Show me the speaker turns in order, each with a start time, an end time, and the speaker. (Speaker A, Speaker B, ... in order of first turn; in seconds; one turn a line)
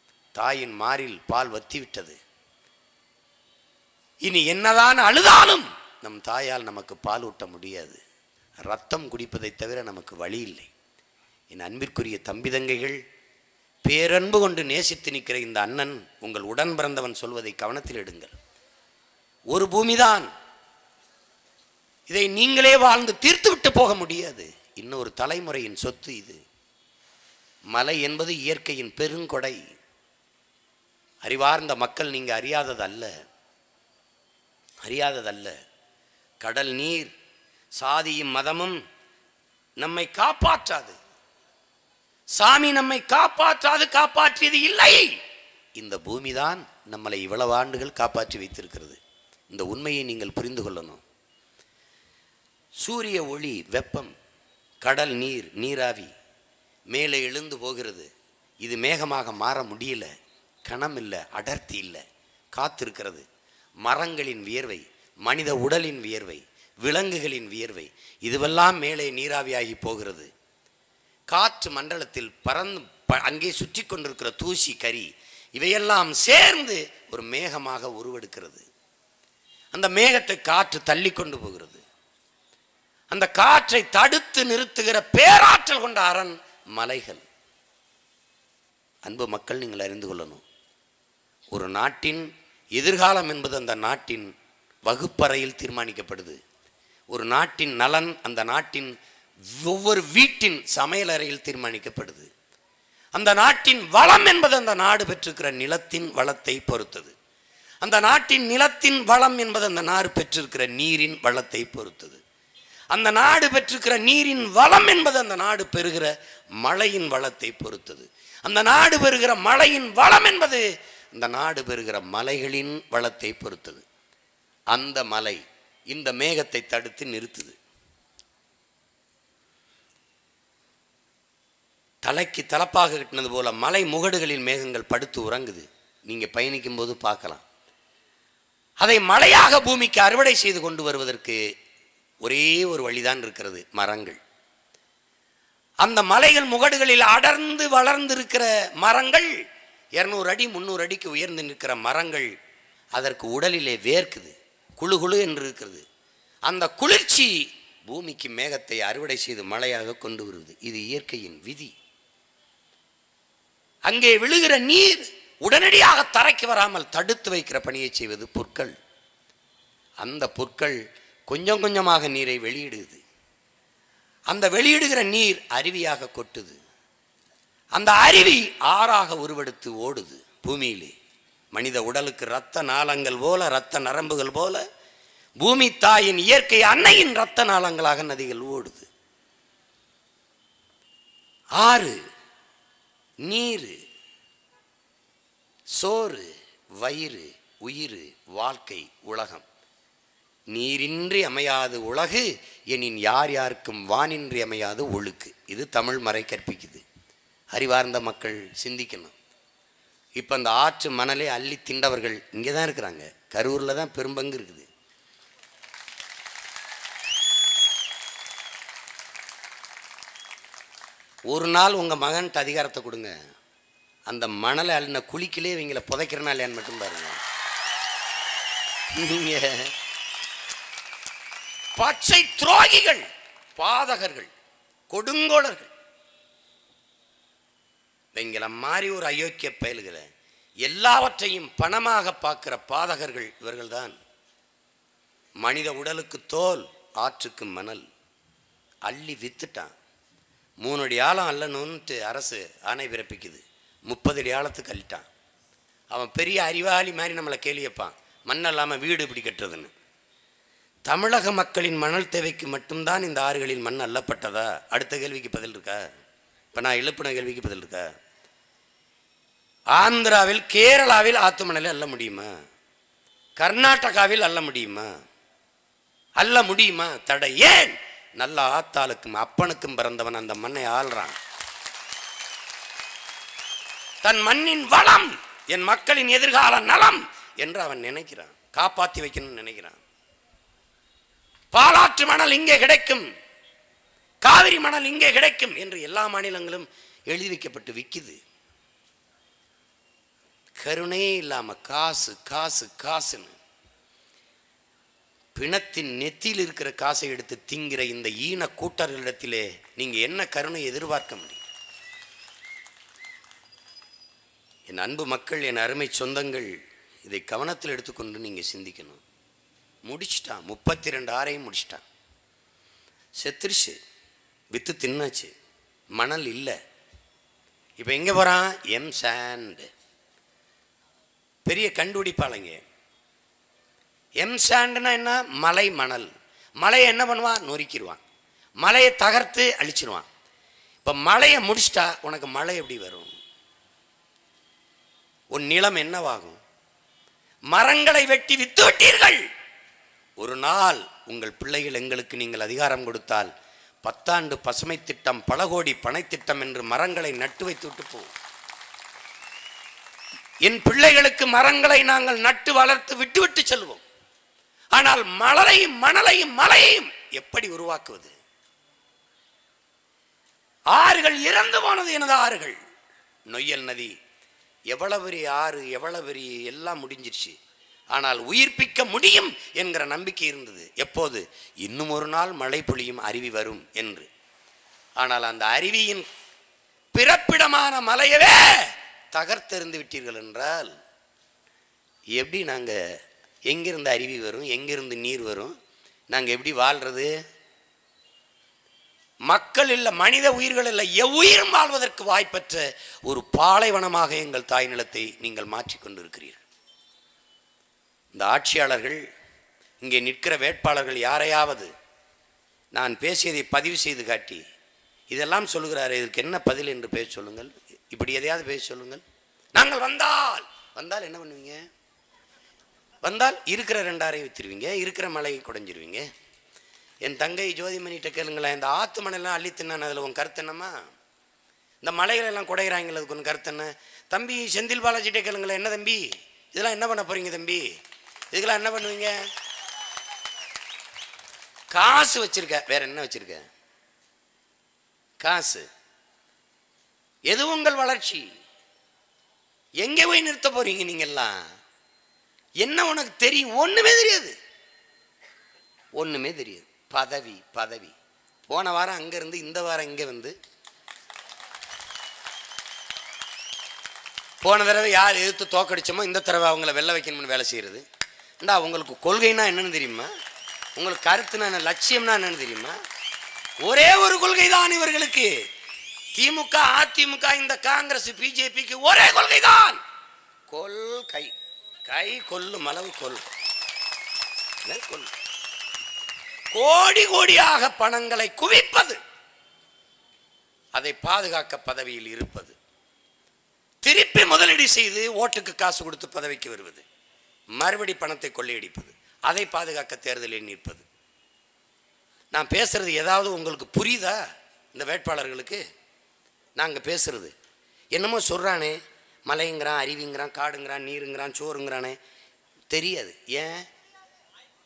Speaker A: 0.4-2.2
Speaker A: 4.2-8.0
Speaker A: 8.7-10.7
Speaker A: 11.5-13.0
Speaker A: 13.9-18.4
Speaker A: 19.5-20.3
Speaker A: 22.1-26.4
Speaker A: 27.7-29.6
Speaker A: 31.2-33.1
Speaker A: 34.8-35.5
Speaker A: 36.4-37.1
Speaker A: 37.8-38.8
Speaker A: 39.8-41.0
Speaker A: 42.4-45.2
Speaker A: 45.8-49.0
Speaker A: 49.5-51.0
Speaker A: 52.8-54.1
Speaker A: 54.8-56.1
Speaker A: 56.9-58.1
Speaker A: 58.6-60.1
Speaker A: 60.7-62.0
Speaker A: 62.5-63.2
Speaker A: 63.8-70.3
Speaker A: 71.3-78.7
Speaker A: 79.7-81.8
Speaker A: 83.1-87.2
Speaker A: 89.0-90.4
Speaker A: 91.5-94.3
Speaker A: 94.9-96.4
Speaker A: 97.1-98.9
Speaker A: 99.5-102.3
Speaker A: 103.2-107.2
Speaker A: 107.8-112.2
Speaker A: 112.9-123.8
Speaker A: 124.7-127.6
Speaker A: 132.0-137.4
Speaker A: 138.8-141.4
Speaker A: 142.2-144.2
Speaker A: 145.8-149.4
Speaker A: 150.0-152.3
Speaker A: 153.0-155.8
Speaker A: 156.5-157.3
Speaker A: 157.9-161.7
Speaker A: 163.9-168.8
Speaker A: 170.0-170.8
Speaker A: 171.3-173.0
Speaker A: 174.3-176.6
Speaker A: 177.8-180.9
Speaker A: 181.5-184.6
Speaker A: 185.4-188.9
Speaker A: 191.6-192.0
Speaker A: 193.2-193.8
Speaker A: 195.8-199.4
Speaker A: 200.5-206.8
Speaker A: 207.5-209.2
Speaker A: 210.2-214.7
Speaker A: 221.3-223.1
Speaker A: 224.1-227.2
Speaker A: 228.9-229.7
Speaker A: 231.8-234.3
Speaker A: 234.9-235.7
Speaker A: 238.2-240.1
Speaker A: 240.6-244.0
Speaker A: 245.4-247.9
Speaker A: 248.9-249.7
Speaker A: 250.6-255.1
Speaker A: 255.9-259.7
Speaker A: 260.9-265.9
Speaker A: 266.5-267.9
Speaker A: 269.7-272.3
Speaker A: 273.4-274.9
Speaker A: 276.2-281.2
Speaker A: 284.0-289.8
Speaker A: 291.5-293.1
Speaker A: 294.2-298.2
Speaker A: 300.6-303.4
Speaker A: 305.4-311.4
Speaker A: 314.7-316.5
Speaker A: 317.1-319.0
Speaker A: 319.9-321.8
Speaker A: 323.2-323.8
Speaker A: 324.5-325.3
Speaker A: 326.0-326.6
Speaker A: 327.8-329.7
Speaker A: 331.5-332.6
Speaker A: 334.2-336.1
Speaker A: 336.6-338.0
Speaker A: 338.6-340.1
Speaker A: 340.8-343.1
Speaker A: 345.3-346.4
Speaker A: 347.5-349.2
Speaker A: 350.2-353.3
Speaker A: 353.8-358.1
Speaker A: 360.4-363.8
Speaker A: 364.7-368.1
Speaker A: 370.7-372.6
Speaker A: 373.3-373.9
Speaker A: 374.7-377.4
Speaker A: 377.9-384.1
Speaker A: 385.0-386.1
Speaker A: 386.9-390.7
Speaker A: 392.2-392.8
Speaker A: 393.5-395.5
Speaker A: 396.1-397.1
Speaker A: 399.3-406.4
Speaker A: 408.1-409.0
Speaker A: 409.8-411.7
Speaker A: 412.7-414.4
Speaker A: 415.1-419.0
Speaker A: 419.6-421.6
Speaker A: 423.0-426.1
Speaker A: 427.0-430.8
Speaker A: 431.8-437.7
Speaker A: 438.3-439.1
Speaker A: 441.7-443.5
Speaker A: 445.2-445.7
Speaker A: 447.3-448.3
Speaker A: 449.8-451.4
Speaker A: 452.6-454.4
Speaker A: 456.0-457.9
Speaker A: 458.5-460.4
Speaker A: 464.4-467.8
Speaker A: 468.4-470.1
Speaker A: 470.8-472.8
Speaker A: 473.6-475.3
Speaker A: 476.1-479.8
Speaker A: 480.5-481.4
Speaker A: 481.9-483.2
Speaker A: 484.6-485.1
Speaker A: 486.5-489.0
Speaker A: 490.8-492.6
Speaker A: 493.8-496.9
Speaker A: 497.6-500.9
Speaker A: 502.3-504.2
Speaker A: 504.7-505.6
Speaker A: 506.6-507.3
Speaker A: 507.9-512.0
Speaker A: 512.7-513.7